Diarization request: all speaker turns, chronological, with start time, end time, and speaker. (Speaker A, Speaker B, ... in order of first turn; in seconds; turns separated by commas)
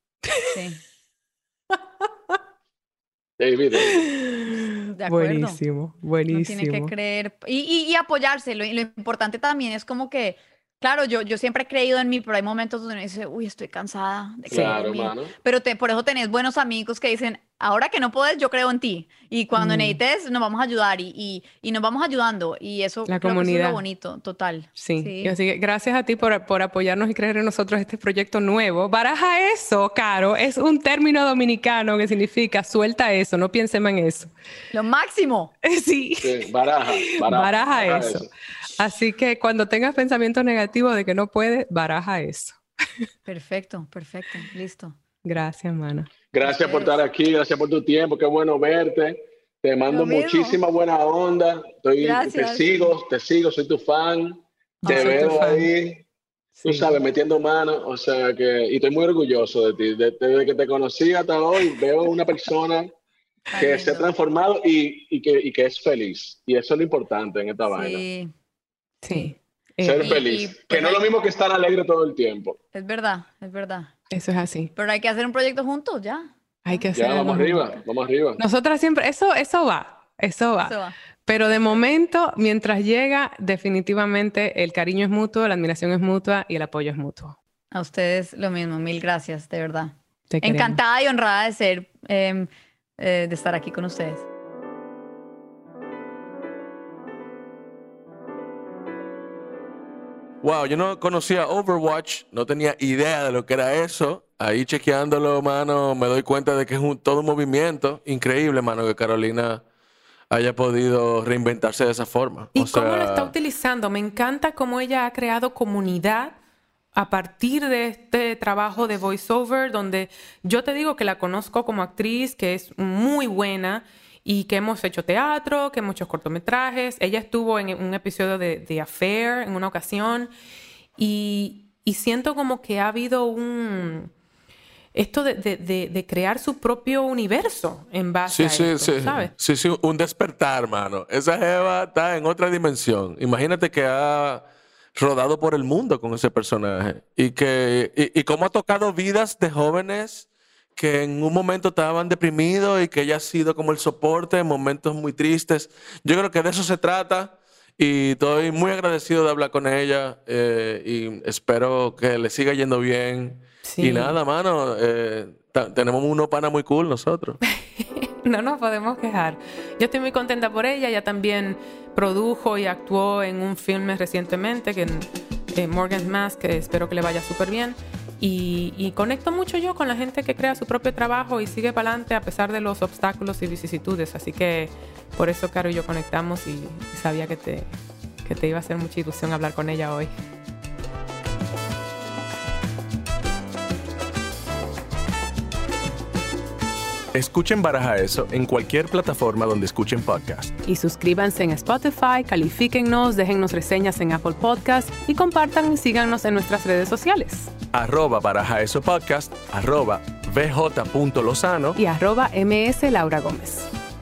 Speaker A: 0.5-0.8, Speaker B: 3.4-4.0, Speaker C: 4.0-6.9, Speaker A: 4.9-5.6, Speaker A: 6.3-25.4, Speaker B: 14.5-15.3, Speaker C: 14.5-14.8, Speaker C: 19.6-20.0, Speaker C: 23.1-23.8, Speaker C: 24.8-34.3, Speaker A: 34.7-35.5, Speaker C: 35.6-42.6, Speaker B: 36.2-38.3, Speaker A: 43.3-45.0, Speaker C: 45.2-46.1, Speaker B: 46.3-56.0, Speaker A: 46.5-47.0, Speaker A: 49.9-50.6, Speaker A: 52.0-52.7, Speaker A: 54.8-55.4, Speaker C: 54.9-55.7, Speaker C: 56.6-56.9, Speaker B: 56.6-62.9, Speaker A: 63.5-64.1, Speaker B: 63.5-68.0, Speaker A: 67.7-68.3, Speaker C: 69.0-70.2, Speaker B: 69.8-72.6, Speaker A: 70.0-71.1, Speaker A: 72.7-73.9, Speaker C: 74.1-74.7, Speaker A: 74.8-76.9, Speaker C: 76.7-77.7, Speaker B: 76.9-78.4, Speaker C: 78.4-87.4, Speaker A: 80.6-81.0, Speaker A: 87.7-94.2, Speaker C: 90.3-90.8, Speaker D: 100.4-109.6, Speaker D: 110.3-113.3, Speaker C: 112.5-116.4, Speaker C: 117.0-130.3, Speaker C: 131.0-134.1, Speaker C: 134.9-139.3, Speaker D: 138.3-167.4, Speaker C: 163.6-164.2, Speaker C: 167.8-190.1, Speaker E: 197.1-200.5, Speaker C: 200.7-207.5, Speaker E: 207.7-211.8, Speaker C: 211.8-213.7